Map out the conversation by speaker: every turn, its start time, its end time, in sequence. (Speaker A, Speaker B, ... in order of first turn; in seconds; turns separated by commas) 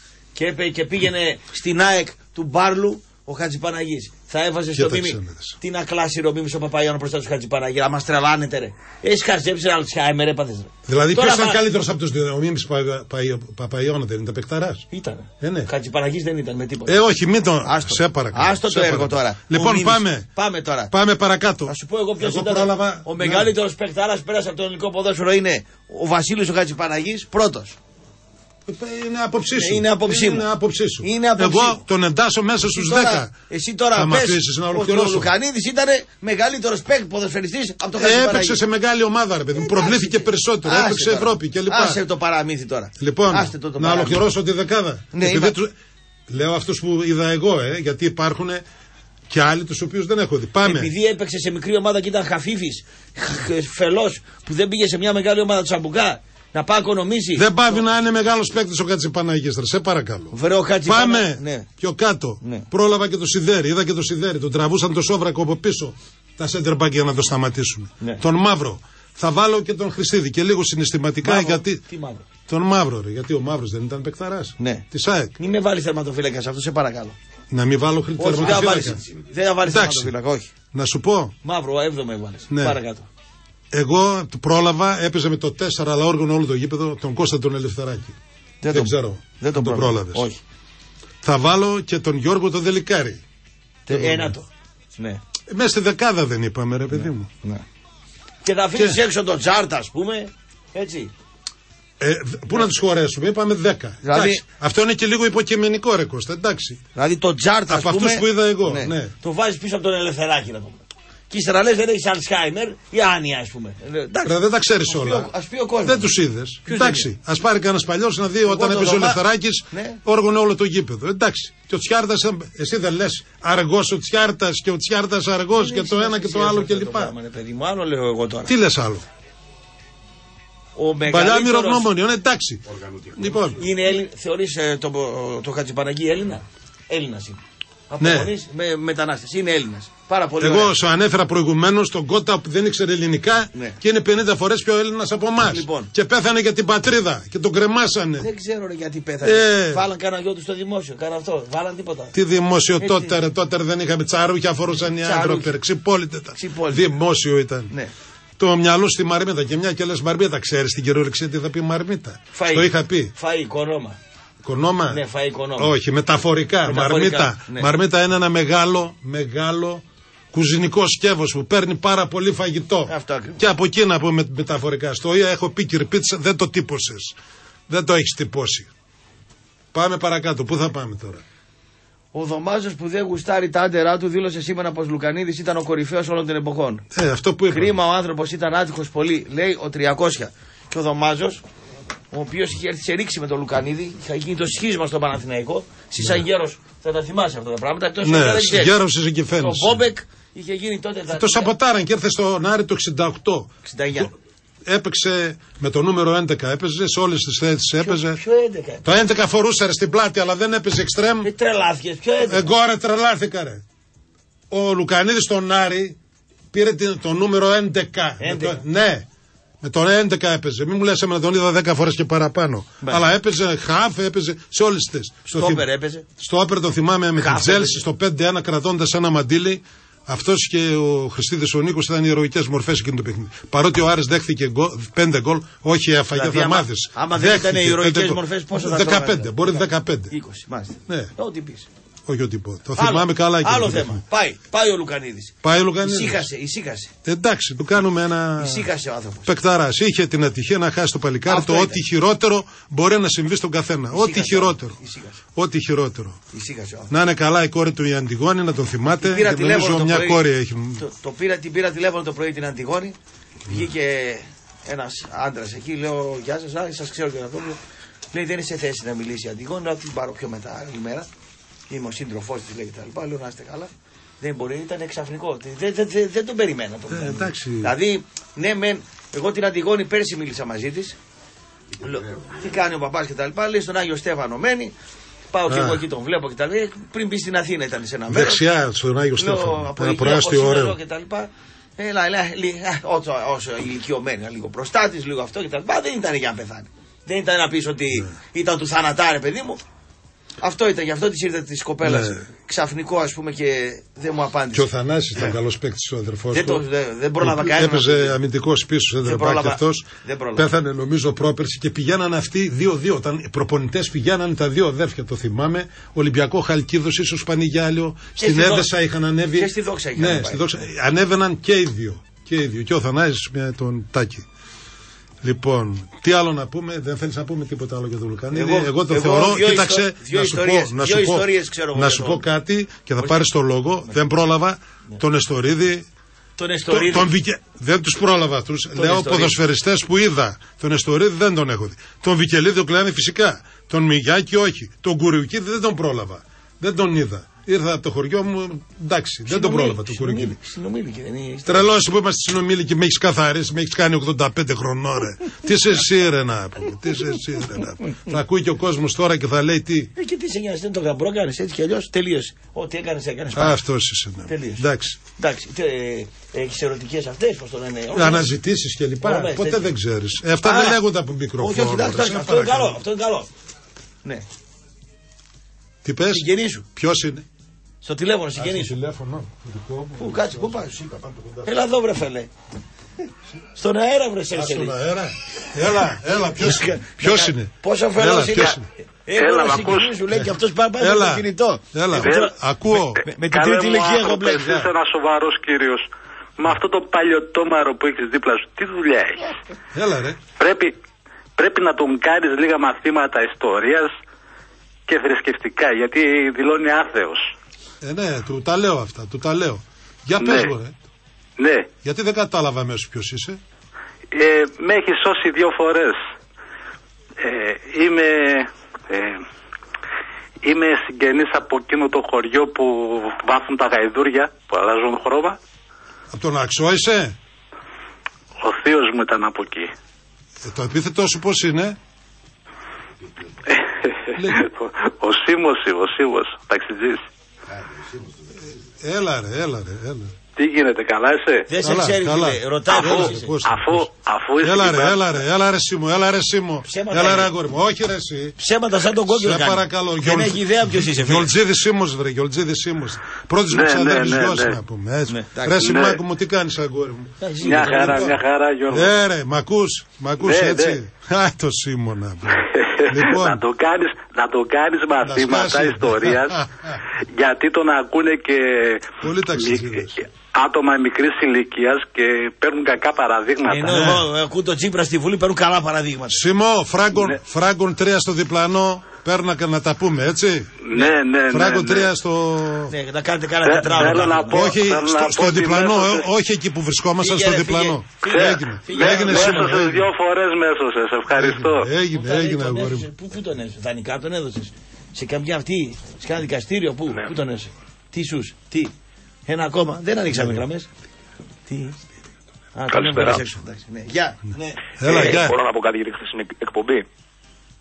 Speaker A: 0.3-11.6, Speaker B: 4.7-5.5, Speaker B: 10.9-14.8, Speaker A: 14.9-16.9, Speaker B: 15.4-15.7, Speaker B: 16.9-20.3, Speaker A: 17.6-20.9, Speaker B: 20.9-23.5, Speaker A: 21.7-27.8, Speaker B: 28.6-33.3, Speaker A: 29.6-30.5, Speaker A: 31.0-31.8, Speaker A: 32.7-38.6, Speaker B: 33.9-35.3, Speaker B: 38.0-42.0, Speaker A: 39.5-44.2, Speaker B: 43.0-45.7, Speaker A: 45.1-45.6, Speaker B: 46.3-48.6, Speaker B: 49.3-50.9, Speaker A: 50.6-57.9, Speaker B: 57.4-60.3, Speaker A: 60.3-61.7, Speaker B: 60.9-71.8, Speaker A: 71.2-72.2, Speaker B: 72.5-75.3, Speaker A: 74.6-74.8, Speaker A: 75.4-77.1, Speaker B: 77.5-79.0, Speaker A: 78.2-80.5, Speaker B: 79.6-80.1, Speaker B: 80.7-81.3, Speaker A: 81.4-83.1, Speaker B: 82.5-82.8, Speaker B: 83.7-88.2, Speaker A: 88.6-90.4, Speaker B: 88.7-90.3, Speaker B: 91.2-93.2, Speaker B: 93.9-94.3, Speaker A: 93.9-95.2, Speaker B: 95.5-97.3, Speaker A: 96.9-97.6, Speaker A: 98.4-101.1, Speaker B: 102.0-106.8, Speaker A: 104.0-104.4, Speaker A: 106.9-116.1, Speaker B: 107.7-109.1, Speaker B: 114.2-115.3, Speaker B: 115.8-127.1, Speaker A: 116.7-117.1, Speaker A: 118.5-120.0, Speaker A: 125.5-128.5, Speaker B: 128.5-129.0, Speaker A: 130.7-131.9, Speaker B: 131.1-133.6, Speaker A: 133.6-140.7, Speaker B: 138.0-138.3, Speaker B: 140.4-148.3, Speaker A: 145.4-145.9, Speaker A: 148.2-152.1, Speaker B: 149.2-149.8, Speaker B: 152.1-157.7, Speaker A: 152.8-153.2, Speaker A: 155.0-155.5, Speaker A: 156.3-156.8, Speaker B: 158.4-163.1, Speaker A: 162.3-164.0, Speaker B: 164.4-165.0, Speaker A: 164.9-165.7, Speaker B: 165.6-177.1, Speaker A: 166.6-167.7, Speaker A: 172.9-173.4, Speaker B: 177.7-178.7, Speaker B: 179.7-181.2, Speaker A: 182.1-186.8, Speaker B: 186.9-187.8, Speaker A: 187.5-191.4, Speaker A: 192.1-198.7, Speaker B: 198.0-199.8, Speaker A: 199.4-201.5, Speaker B: 201.1-204.1, Speaker A: 203.6-204.1, Speaker B: 204.6-208.2, Speaker A: 207.8-208.9, Speaker B: 208.8-211.3, Speaker A: 211.2-212.5, Speaker B: 212.3-213.6, Speaker B: 214.5-216.0, Speaker B: 216.5-219.1, Speaker A: 218.2-218.6, Speaker B: 219.6-225.7, Speaker A: 225.2-226.0, Speaker B: 226.2-240.1, Speaker A: 227.2-227.8, Speaker A: 236.1-241.7, Speaker B: 242.1-244.0, Speaker A: 242.8-246.9, Speaker B: 245.4-246.3, Speaker B: 247.0-248.7, Speaker A: 248.4-249.3, Speaker B: 249.2-254.8, Speaker A: 251.3-251.8, Speaker A: 253.9-255.2, Speaker B: 255.3-256.2, Speaker A: 256.3-256.9, Speaker B: 256.9-260.8, Speaker A: 259.0-260.2, Speaker A: 260.8-262.9, Speaker A: 263.5-267.6, Speaker A: 268.1-271.1, Speaker A: 271.7-281.0, Speaker B: 276.9-277.7, Speaker A: 281.8-284.7, Speaker A: 285.3-288.4, Speaker B: 285.5-285.8, Speaker B: 288.1-290.8, Speaker A: 289.2-299.6, Speaker A: 300.4-304.7, Speaker B: 301.8-302.2, Speaker B: 304.5-306.6, Speaker A: 306.3-308.1, Speaker B: 307.2-324.2, Speaker A: 309.0-310.5, Speaker A: 318.2-318.7, Speaker A: 319.3-320.4, Speaker B: 325.2-335.8, Speaker A: 328.3-332.2, Speaker A: 333.0-333.2, Speaker A: 336.4-337.1, Speaker B: 336.7-350.4, Speaker A: 338.7-339.4, Speaker A: 349.3-351.7, Speaker B: 351.4-359.9, Speaker A: 359.9-363.6, Speaker B: 363.3-365.0, Speaker A: 364.3-364.6, Speaker A: 365.2-368.3, Speaker B: 367.9-372.8, Speaker A: 369.0-369.7, Speaker A: 370.4-370.8, Speaker A: 371.4-373.3, Speaker B: 375.8-377.2, Speaker A: 376.1-376.6, Speaker A: 377.8-378.7, Speaker B: 378.4-381.5, Speaker A: 380.0-380.8, Speaker A: 381.4-382.3, Speaker A: 383.5-384.7, Speaker B: 384.3-388.7, Speaker A: 386.4-392.3, Speaker C: 389.1-390.0, Speaker B: 390.8-393.0, Speaker A: 393.0-394.6, Speaker C: 393.2-395.9, Speaker B: 394.3-394.7, Speaker C: 396.4-399.3, Speaker B: 399.7-400.2, Speaker C: 400.4-400.7, Speaker C: 401.4-403.9, Speaker C: 404.9-407.3, Speaker B: 407.8-410.7, Speaker C: 410.2-410.5, Speaker C: 411.4-411.7, Speaker B: 411.8-413.4, Speaker C: 414.1-416.0, Speaker C: 417.2-419.2, Speaker C: 420.4-425.4, Speaker B: 426.1-427.1, Speaker C: 428.4-429.7, Speaker B: 430.4-431.8, Speaker C: 434.1-437.0, Speaker B: 434.1-434.4, Speaker B: 438.8-440.1, Speaker C: 440.4-441.5, Speaker A: 441.5-443.3, Speaker B: 441.6-448.4, Speaker C: 442.7-445.0, Speaker A: 446.6-447.3, Speaker A: 448.4-451.3, Speaker B: 449.1-457.1, Speaker C: 453.5-454.6, Speaker A: 455.1-455.7, Speaker C: 455.6-456.0, Speaker A: 457.2-458.2, Speaker C: 457.4-458.9, Speaker B: 458.7-463.4, Speaker C: 460.2-460.8, Speaker C: 462.4-466.4, Speaker B: 465.0-466.8, Speaker C: 467.1-474.0, Speaker B: 469.0-470.0, Speaker A: 473.5-476.2, Speaker B: 473.7-474.0, Speaker B: 476.1-480.6, Speaker C: 480.6-481.9, Speaker B: 481.3-482.7, Speaker A: 482.7-484.6, Speaker C: 483.4-486.1, Speaker B: 484.3-489.9, Speaker A: 487.0-489.7, Speaker C: 488.1-491.7, Speaker B: 491.1-492.9, Speaker A: 491.9-498.7, Speaker A: 499.3-500.7, Speaker A: 501.5-501.8, Speaker A: 502.6-504.7, Speaker D: 502.7-503.2, Speaker B: 504.8-505.3, Speaker D: 504.8-506.9